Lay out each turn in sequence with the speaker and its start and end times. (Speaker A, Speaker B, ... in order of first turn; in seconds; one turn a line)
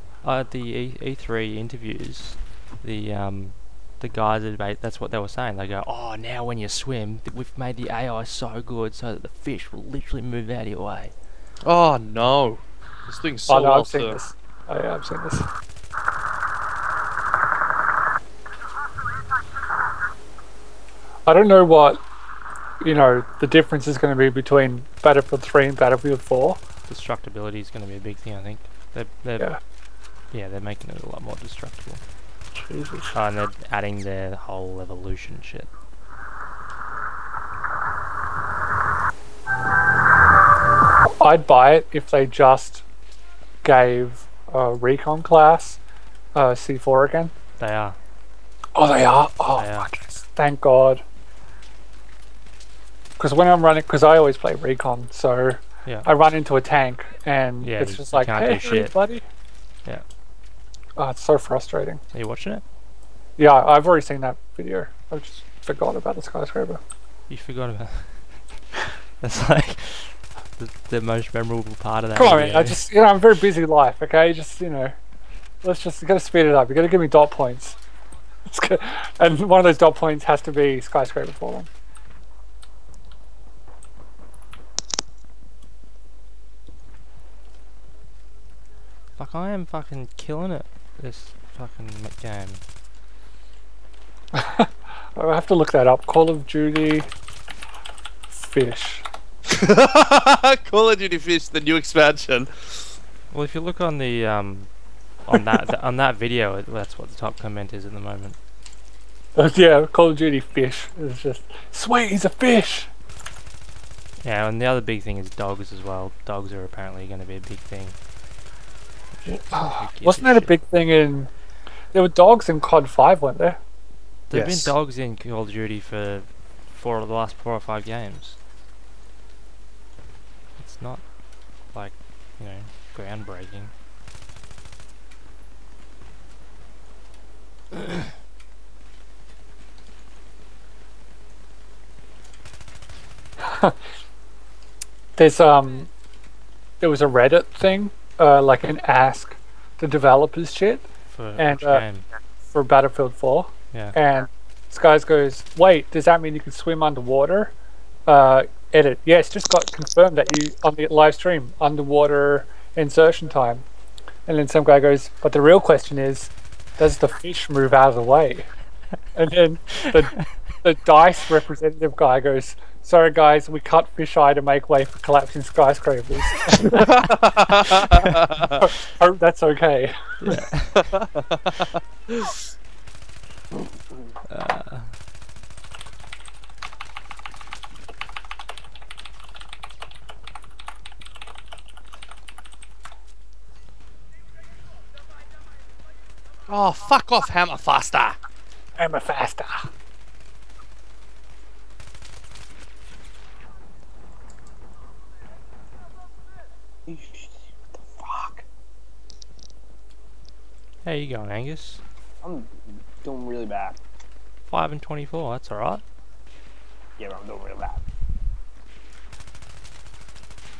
Speaker A: 0.2-11.1
Speaker B: 11.6-14.2
Speaker C: 13.5-15.5
Speaker C: 21.3-22.0
Speaker C: 22.8-26.6
Speaker A: 26.9-29.6
Speaker A: 30.3-32.0
Speaker C: 32.6-33.1
Speaker A: 33.1-35.7
Speaker C: 41.2-42.8
Speaker C: 43.6-45.8
Speaker C: 46.3-47.3
Speaker A: 47.6-48.0
Speaker C: 48.7-51.0
Speaker A: 49.5-49.9
Speaker C: 53.2-59.2
Speaker A: 57.6-59.0
Speaker C: 61.0-62.0
Speaker A: 62.1-62.6
Speaker C: 63.4-66.8
Speaker A: 67.3-68.3
Speaker A: 69.2-72.8
Speaker C: 72.1-74.9
Speaker C: 75.6-77.8
Speaker C: 78.5-81.7
Speaker A: 89.2-92.6
Speaker C: 94.3-97.1
Speaker C: 98.3-99.0
Speaker B: 99.5-102.9
Speaker A: 103.3-104.7
Speaker A: 105.2-108.4
Speaker C: 109.3-112.9
Speaker A: 114.2-118.0
Speaker A: 119.2-120.6
Speaker C: 119.2-121.3
Speaker C: 121.9-123.6
Speaker A: 124.3-128.4
Speaker B: 124.3-124.7
Speaker A: 130.6-133.7
Speaker C: 143.4-143.8
Speaker C: 145.2-145.9
Speaker C: 146.8-151.8
Speaker A: 151.1-152.1
Speaker C: 152.5-157.5
Speaker C: 158.1-163.6
Speaker C: 164.3-168.5
Speaker C: 169.1-177.0
Speaker B: 176.7-178.6
Speaker C: 177.9-180.2
Speaker A: 180.2-181.0
Speaker B: 180.9-182.3
Speaker A: 184.3-185.0
Speaker B: 196.5-198.2
Speaker C: 198.8-199.7
Speaker D: 206.9-208.4
Speaker A: 210.8-211.8
Speaker D: 212.2-213.8
Speaker A: 214.5-215.8
Speaker D: 217.0-217.8